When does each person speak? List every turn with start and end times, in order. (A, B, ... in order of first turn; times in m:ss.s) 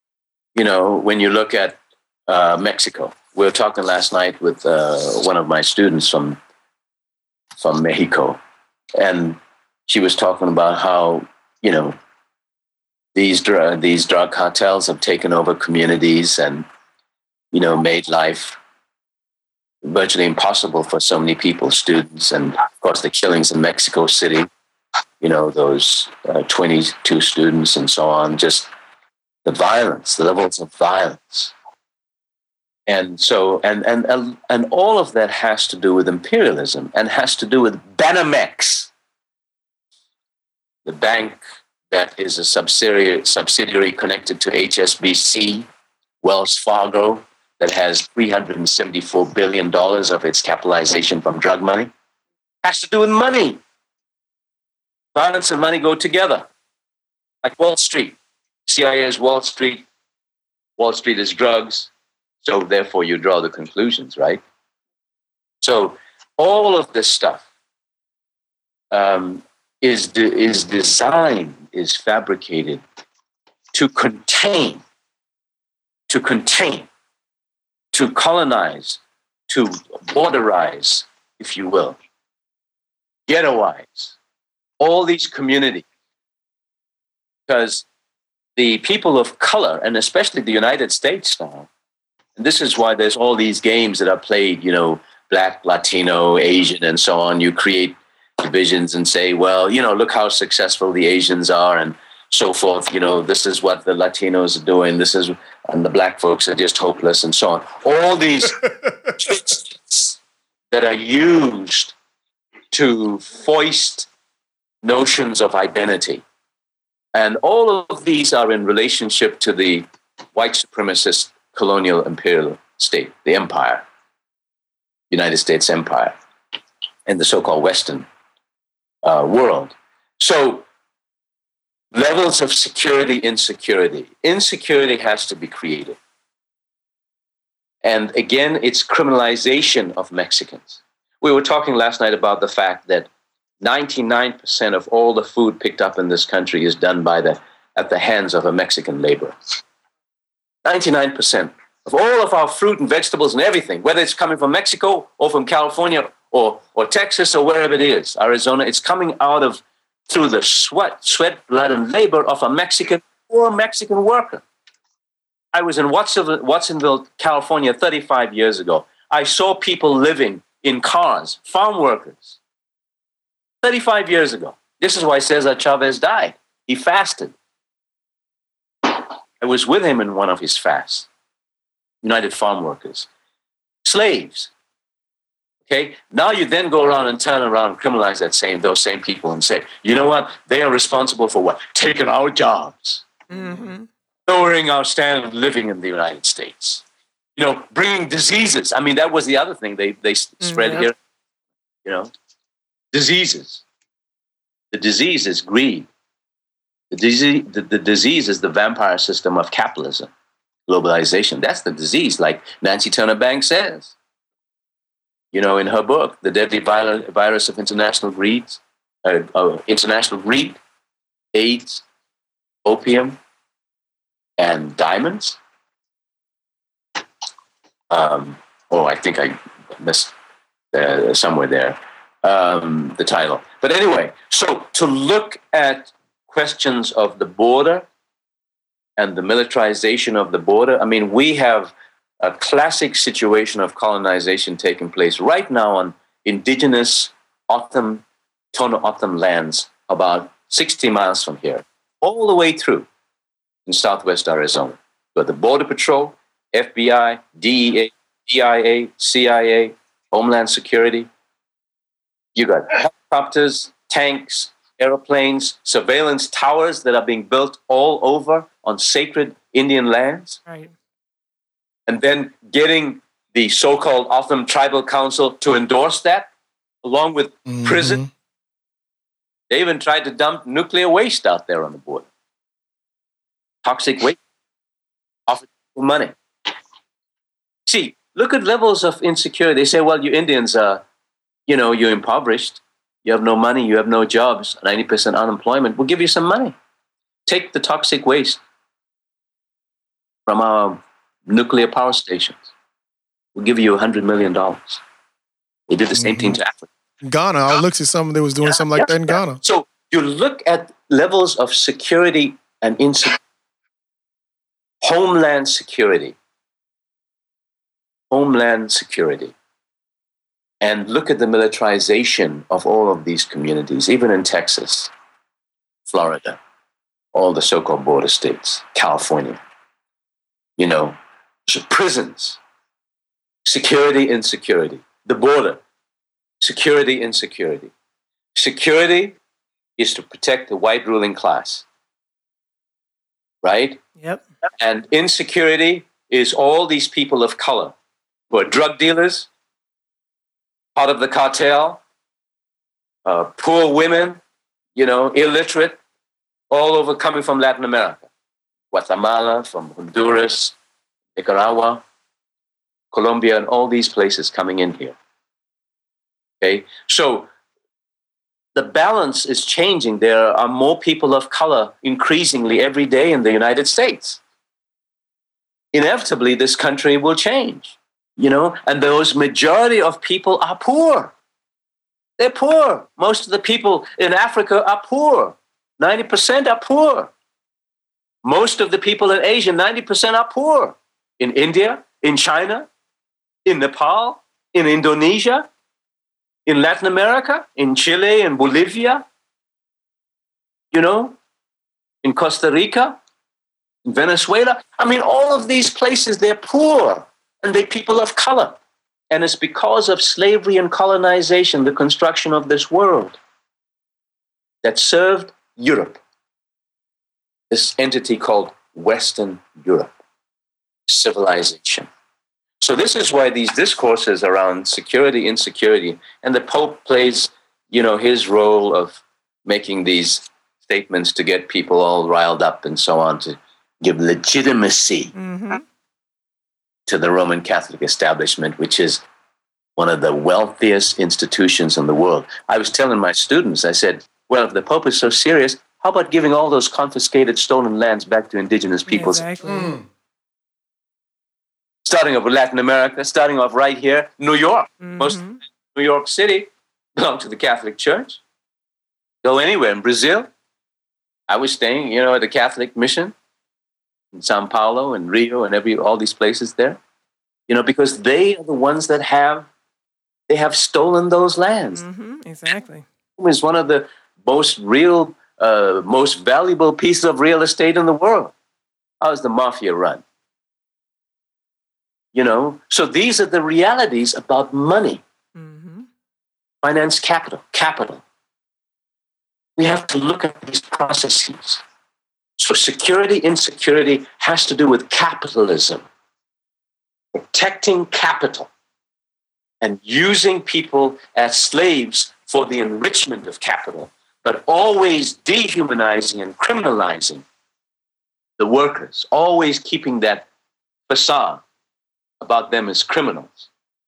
0:00.6-0:06.4 A
0:07.6-0:08.4 A
0:09.0-0:12.0 A
0:13.1-0:16.6 A
0:17.5-0:18.6 A
0:19.8-0:24.5 A
0:25.2-0:28.7 A
0:29.4-0:31.5 A
0:32.9-0:38.9 A
0:40.9-0:45.6 A
0:46.2-0:51.9 A
0:52.6-0:53.6 A
0:55.1-0:56.4 A
0:57.4-0:59.9 A
1:00.8-1:01.9 A
1:02.4-1:04.4 A
1:05.6-1:07.4 A
1:08.9-1:12.8 A
1:13.7-1:14.8 A
1:16.1-1:16.9 A
1:17.9-1:22.0 A
1:23.3-1:24.1 A
1:24.8-1:25.8 A
1:27.5-1:27.8 A
1:28.6-1:31.7 A
1:32.4-1:48.6 A
1:49.2-1:50.2 A
1:50.7-1:51.9 A
1:52.7-1:54.1 A
1:54.8-1:56.2 A
1:57.1-2:03.8 A
2:05.1-2:06.2 A
2:07.0-2:08.0 A
2:09.0-2:10.6 A
2:11.9-2:16.0 A
2:17.8-2:23.1 A
2:23.6-2:29.6 A
2:30.6-2:44.4 A
2:45.5-2:52.4 A
2:53.6-2:57.3 A
2:58.8-3:01.1 A
3:02.0-3:03.1 A
3:03.8-3:04.5 A
3:05.7-3:13.1 A
3:13.3-3:13.9 B
3:14.3-3:16.8 A
3:17.4-3:21.0 A
3:20.4-3:20.9 B
3:21.8-3:22.1 A
3:22.9-3:23.6 A
3:24.7-3:25.9 A
3:26.9-3:30.1 A
3:30.7-3:33.9 A
3:35.3-3:40.6 A
3:41.3-3:41.8 A
3:42.6-3:43.2 A
3:44.4-3:45.4 A
3:47.9-3:50.1 A
3:50.7-3:57.9 A
3:59.0-4:12.9 A
4:13.7-4:21.1 A
4:22.3-4:30.4 A
4:30.5-4:30.7 B
4:31.9-4:36.3 A
4:36.8-4:38.0 A
4:37.4-4:38.1 C
4:39.5-4:42.1 A
4:43.6-4:44.2 A
4:45.3-4:46.1 A
4:47.7-4:50.8 A
4:51.5-4:56.6 A
4:57.3-4:58.4 A
5:00.3-5:02.5 A
5:03.4-5:04.8 A
5:05.7-5:06.7 A
5:06.0-5:06.4 C
5:07.0-5:09.4 C
5:08.5-5:13.2 A
5:14.8-5:16.2 A
5:18.1-5:19.3 A
5:20.6-5:24.9 A
5:25.9-5:26.4 A
5:27.1-5:29.4 A
5:30.6-5:31.0 A
5:31.5-5:32.4 A
5:33.4-5:35.6 A
5:36.4-5:37.7 A
5:38.3-5:39.2 A
5:39.8-5:41.6 A
5:43.4-5:43.8 A
5:44.0-5:44.2 B
5:44.6-5:47.7 A
5:48.3-5:49.3 A
5:50.8-5:51.8 A
5:53.0-5:54.2 A
5:54.8-5:55.8 A
5:56.5-5:58.1 A
5:58.7-6:00.6 A
6:01.2-6:01.8 A
6:02.9-6:05.0 A
6:06.4-6:07.3 A
6:08.6-6:14.2 A
6:15.7-6:21.1 A
6:22.2-6:27.1 A
6:28.2-6:32.7 A
6:33.4-6:35.5 A
6:36.4-6:39.0 A
6:40.7-6:41.2 A
6:42.0-6:43.0 A
6:43.9-6:48.6 A
6:49.1-6:53.2 A
6:54.6-6:56.0 A
6:57.5-6:59.9 A
7:00.9-7:01.9 A
7:02.6-7:15.1 A
7:15.2-7:15.6 B
7:16.9-7:19.0 A
7:19.8-7:29.2 A
7:28.9-7:29.8 B
7:29.4-7:29.8 C
7:31.8-7:35.2 A
7:34.8-7:35.4 B
7:35.7-7:38.2 A
7:39.2-7:40.3 A
7:41.3-7:43.1 A
7:44.1-7:46.8 A
7:47.5-7:49.5 A
7:50.3-7:51.8 A
7:51.7-7:52.8 B
7:53.2-7:58.3 A
7:59.0-8:00.0 A
8:02.1-8:05.0 A
8:05.4-8:05.9 B
8:06.6-8:08.0 A
8:09.6-8:11.6 A
8:12.4-8:15.8 A
8:17.1-8:18.5 A
8:19.6-8:27.2 A
8:28.4-8:30.3 A
8:30.9-8:31.4 A
8:32.2-8:33.5 A